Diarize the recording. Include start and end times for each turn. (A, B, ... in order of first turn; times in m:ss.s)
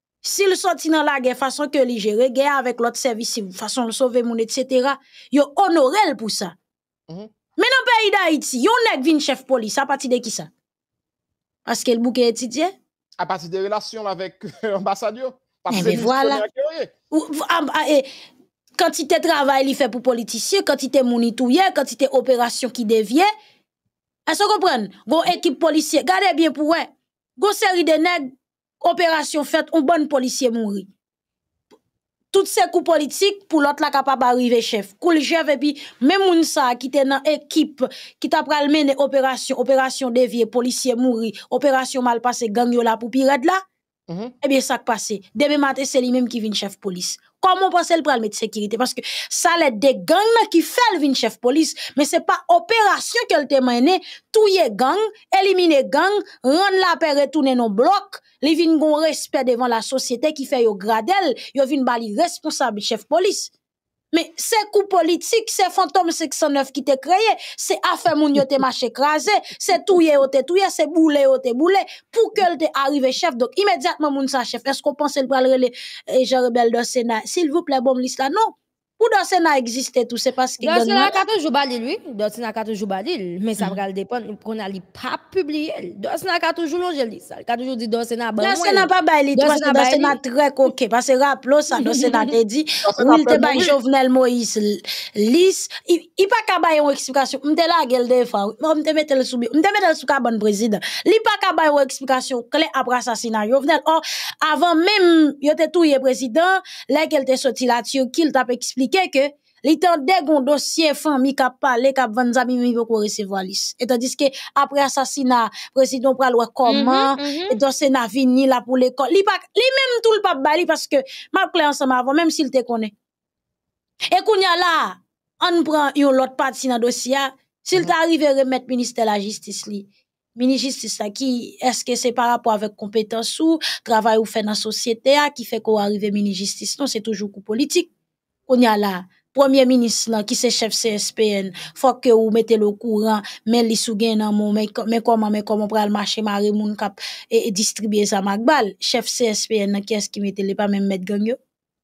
0:00.2-0:06.6 A
0:07.6-0:10.5 A
0:11.6-0:12.7 A
0:13.2-0:16.9 B
0:15.7-0:16.4 A
0:17.1-0:18.1 A
0:18.8-0:23.3 A
0:24.3-0:30.9 A
0:32.3-0:43.6 A
0:44.1-0:44.3 B
0:44.4-1:03.5 A
1:04.1-1:21.2 A
1:20.6-1:30.2 C
1:28.4-2:02.9 A
1:31.8-1:32.3 C
1:32.8-1:33.8 B
1:56.6-1:57.6 C
2:04.1-2:17.9 A
2:18.5-2:31.4 A